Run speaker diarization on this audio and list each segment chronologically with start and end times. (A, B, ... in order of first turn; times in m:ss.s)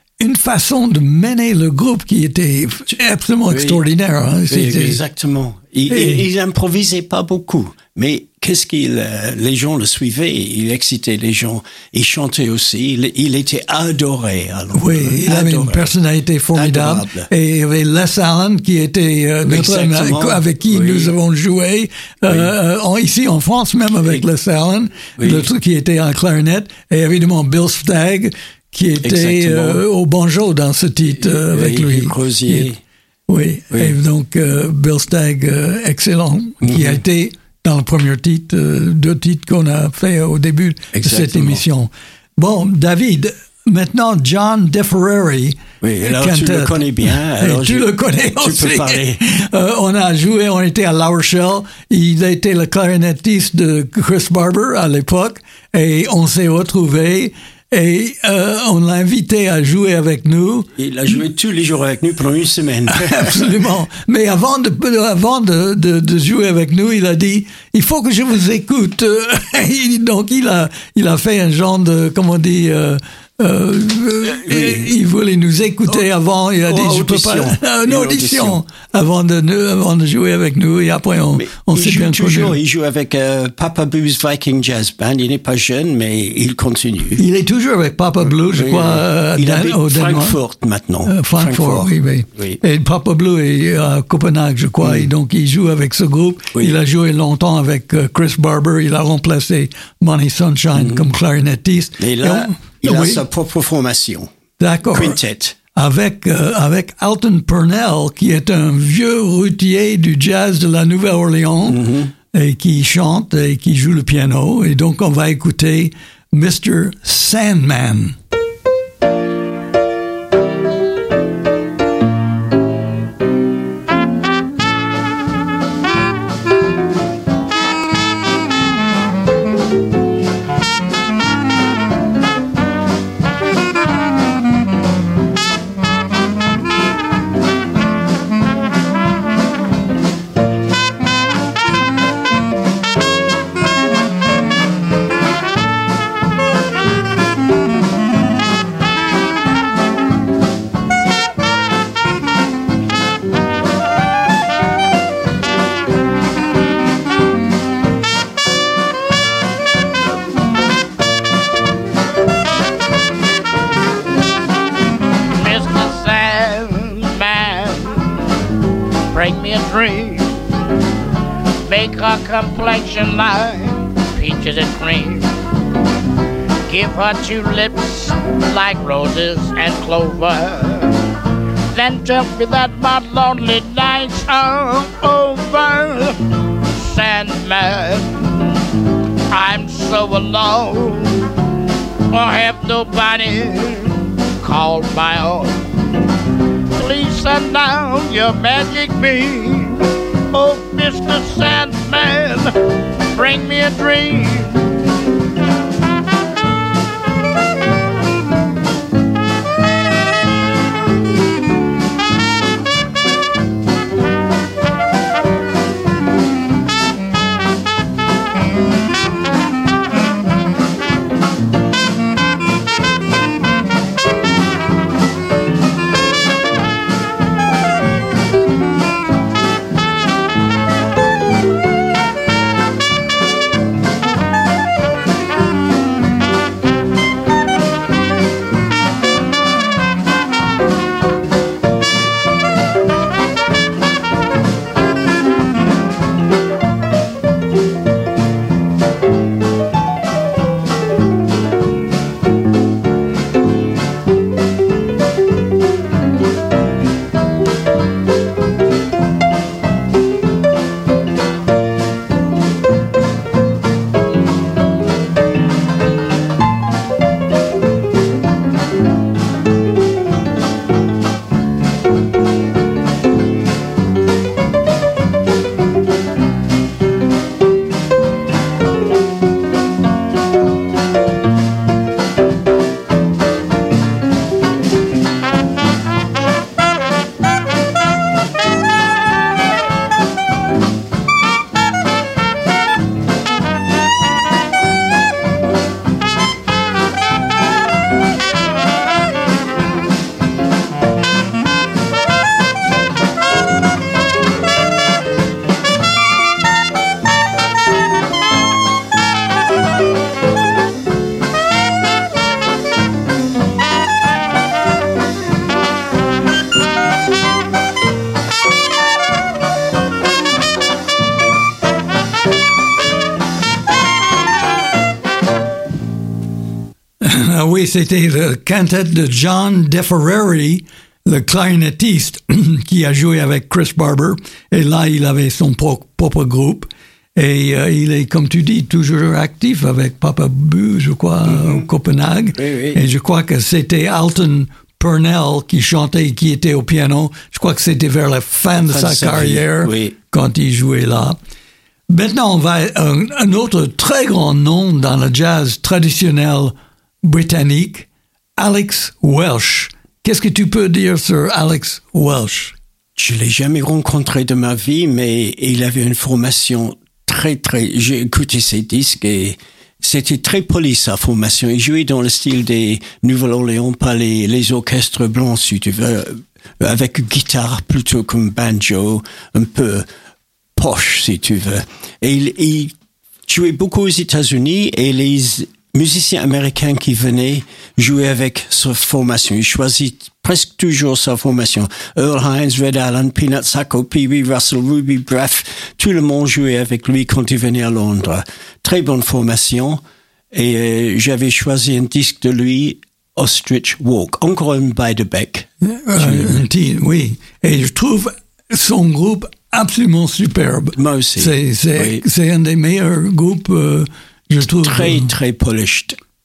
0:00.2-0:05.0 A
0:03.5-0:03.8 B
0:04.5-0:15.8 B
0:05.9-0:06.2 A
0:14.7-0:32.7 A
0:16.5-0:17.3 B
0:19.4-0:21.1 B
0:25.2-0:25.5 B
0:29.0-0:29.8 B
0:31.2-0:32.8 B
0:33.3-1:00.7 A
0:36.6-0:37.0 B
0:40.9-0:41.6 B
0:45.8-0:49.2 B
1:00.8-1:03.3 B
1:02.9-1:22.6 A
1:14.3-1:14.9 B
1:16.6-1:18.6 B
1:21.3-1:27.2 B
1:27.2-1:30.4 A
1:28.5-1:32.6 B
1:31.0-1:43.2 A
1:34.8-1:35.1 B
1:40.8-1:41.1 B
1:42.0-1:44.3 B
1:44.6-1:45.2 A
1:44.9-1:45.5 B
1:45.7-1:58.2 A
1:51.7-1:52.1 B
2:45.3-2:48.2 C
2:49.1-2:50.4 C
2:51.6-2:55.3 C
2:56.7-3:01.0 C
3:01.7-3:08.4 C
3:09.3-3:11.3 C
3:12.1-3:15.6 C
3:16.7-3:22.6 C
3:23.1-3:24.7 C
5:27.0-5:51.2 A
5:41.3-5:41.7 B
5:42.4-5:42.8 B
5:48.7-5:49.9 B
5:51.9-6:02.5 A
6:03.0-6:19.9 B
6:20.6-6:22.7 B
6:23.3-6:39.8 B
6:40.3-6:46.4 B
6:45.6-6:55.1 A
6:50.7-6:52.0 B
6:54.5-6:56.0 B